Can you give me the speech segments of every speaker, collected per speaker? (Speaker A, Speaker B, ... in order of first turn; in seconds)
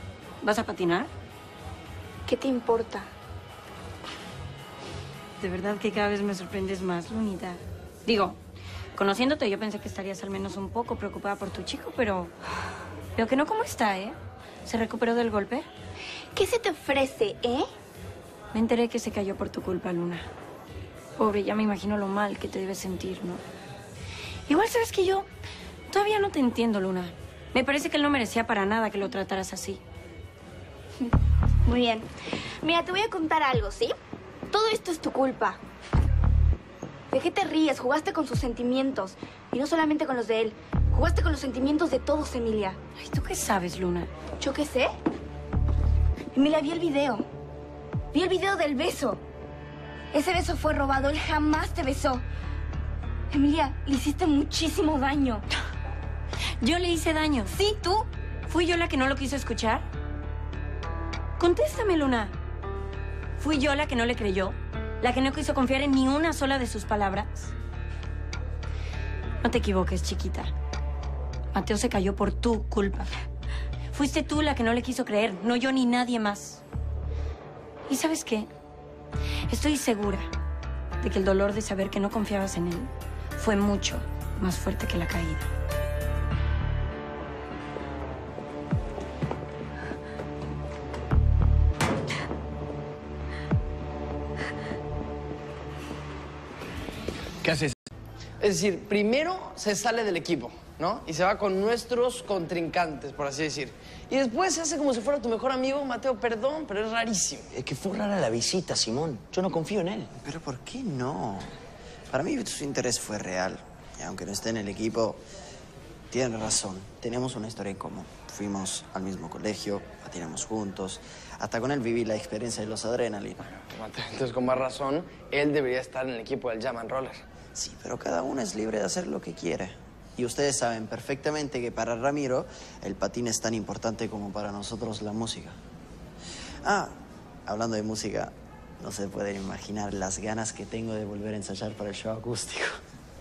Speaker A: 0.4-1.1, 5.4-8.4, 8.9-12.3, 13.1-15.7, 18.5-20.3, 21.2-23.4, 24.5-25.3, 25.9-29.8, 43.0-44.1, 56.6-57.5, 58.5-59.9, 61.4-62.3, 63.4-67.5, 69.4-70.5, 71.5-73.1, 73.9-76.6, 77.9-78.5, 79.5-80.3, 81.0-85.5
Speaker B: 2.2-3.1, 16.3-17.7, 31.6-32.1, 32.6-33.9, 34.5-35.6, 37.1-42.8, 44.4-44.9, 46.3-47.2, 48.1-49.2, 50.1-52.2, 53.3-55.5, 57.5-58.1
Speaker C: 97.4-97.7, 107.5-110.1
Speaker D: 98.4-107.5, 123.7-127.2
Speaker E: 110.2-111.5, 112.1-115.2, 116.1-123.4, 127.5-135.6, 136.6-136.9, 137.5-142.8